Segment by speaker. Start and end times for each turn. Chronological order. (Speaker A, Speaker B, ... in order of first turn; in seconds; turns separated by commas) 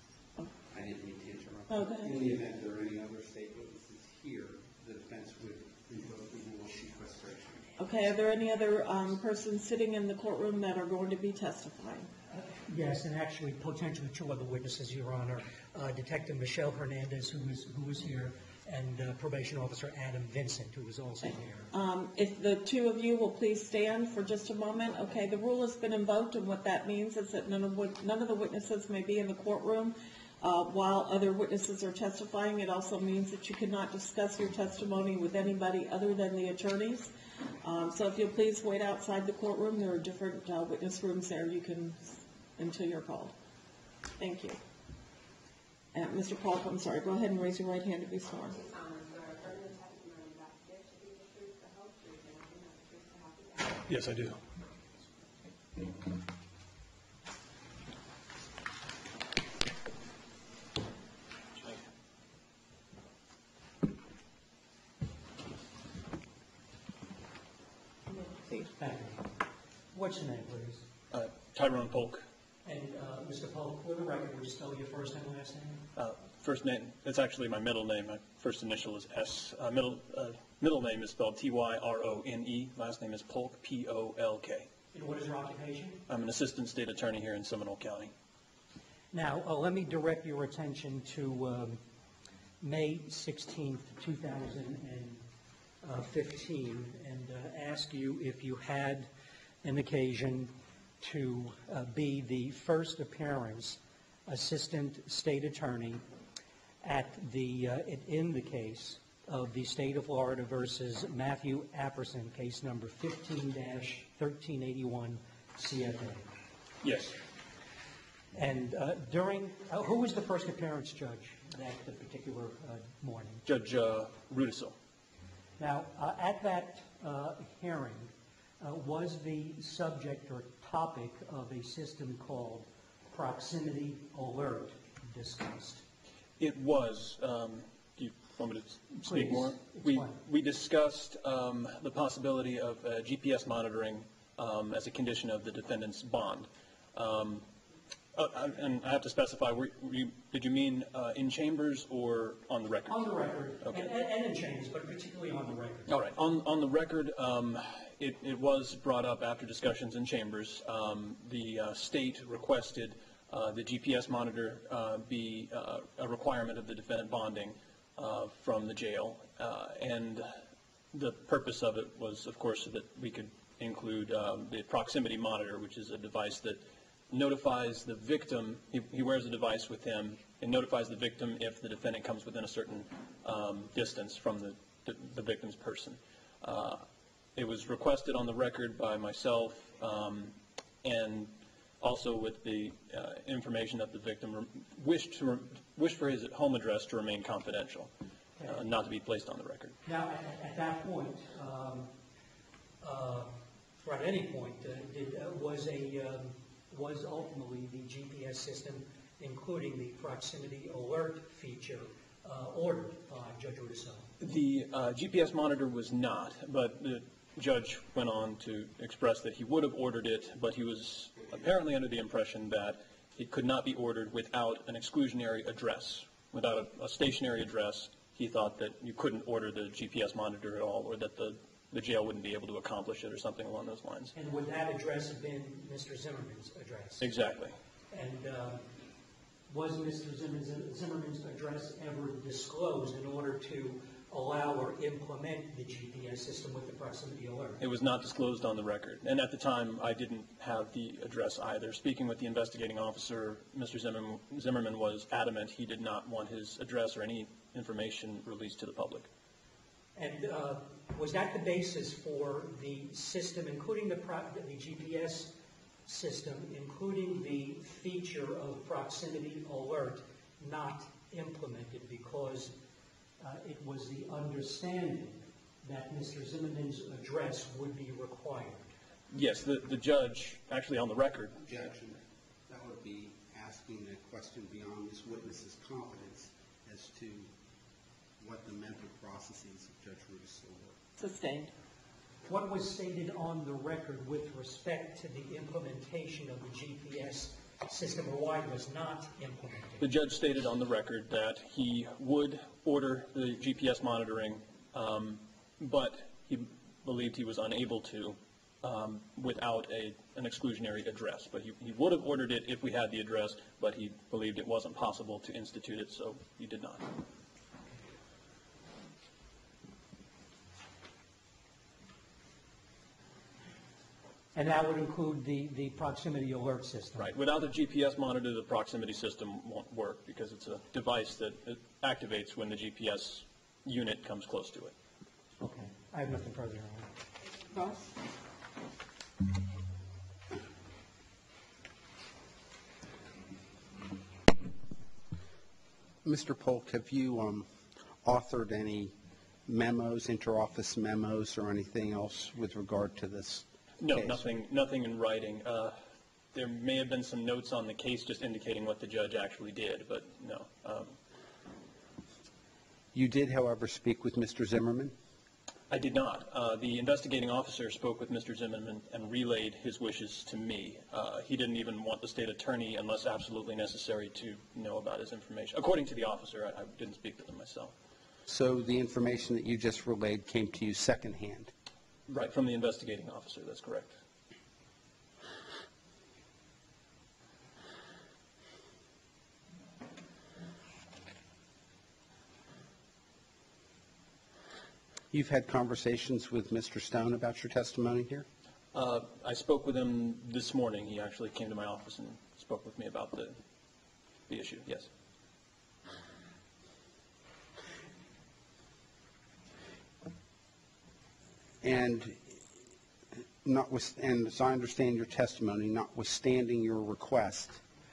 Speaker A: 0.7-7.7, Speaker B: 1.7-2.1, Speaker B: 7.8-12.1, Speaker C: 12.3-21.7, Speaker B: 21.7-37.1, Speaker B: 37.6-43.3, Speaker B: 44.2-44.6, Speaker B: 45.9-48.6, Speaker D: 48.5-53.9, Speaker E: 53.9-54.4, Speaker C: 68.5-69.3, Speaker C: 69.9-70.8, Speaker E: 71.1-72.2, Speaker C: 72.7-75.9, Speaker E: 76.0-84.7, Speaker C: 84.9-86.0, Speaker E: 86.1-88.1, Speaker C: 89.1-91.8, Speaker C: 92.6-95.2, Speaker C: 95.8-99.1, Speaker C: 99.6-106.0, Speaker C: 106.8-116.3, Speaker E: 116.8-117.2, Speaker C: 118.3-123.4, Speaker E: 123.5-124.8, Speaker C: 125.6-135.8, Speaker E: 136.4-147.5, Speaker C: 139.0-140.2, Speaker E: 148.2-153.0, Speaker C: 152.9-155.9, Speaker E: 155.9-170.3, Speaker E: 170.9-197.9, Speaker E: 198.4-199.8, Speaker C: 199.8-201.9, Speaker C: 202.8-214.1, Speaker E: 214.2-234.1, Speaker C: 234.1-237.1, Speaker E: 237.0-237.6, Speaker C: 237.9-238.7, Speaker C: 239.5-247.6, Speaker E: 247.6-259.1, Speaker C: 259.9-265.3, Speaker C: 265.9-272.6, Speaker C: 273.2-278.7, Speaker E: 279.1-281.3, Speaker A: 281.4-287.3, Speaker A: 288.2-290.8, Speaker B: 291.0-291.5, Speaker C: 292.2-299.9, Speaker E: 299.8-316.9, Speaker C: 324.4-327.1, Speaker E: 327.0-334.7, Speaker C: 335.4-336.9, Speaker B: 337.5-337.9, Speaker A: 346.0-347.5, Speaker A: 348.0-348.9, Speaker A: 349.4-354.2, Speaker E: 353.8-355.8, Speaker E: 356.3-360.9, Speaker A: 362.9-364.9, Speaker E: 365.7-377.7, Speaker A: 378.3-381.5, Speaker E: 382.1-383.9, Speaker A: 395.1-398.2, Speaker E: 398.7-403.4, Speaker E: 404.3-404.9, Speaker A: 411.6-412.4, Speaker A: 413.4-417.6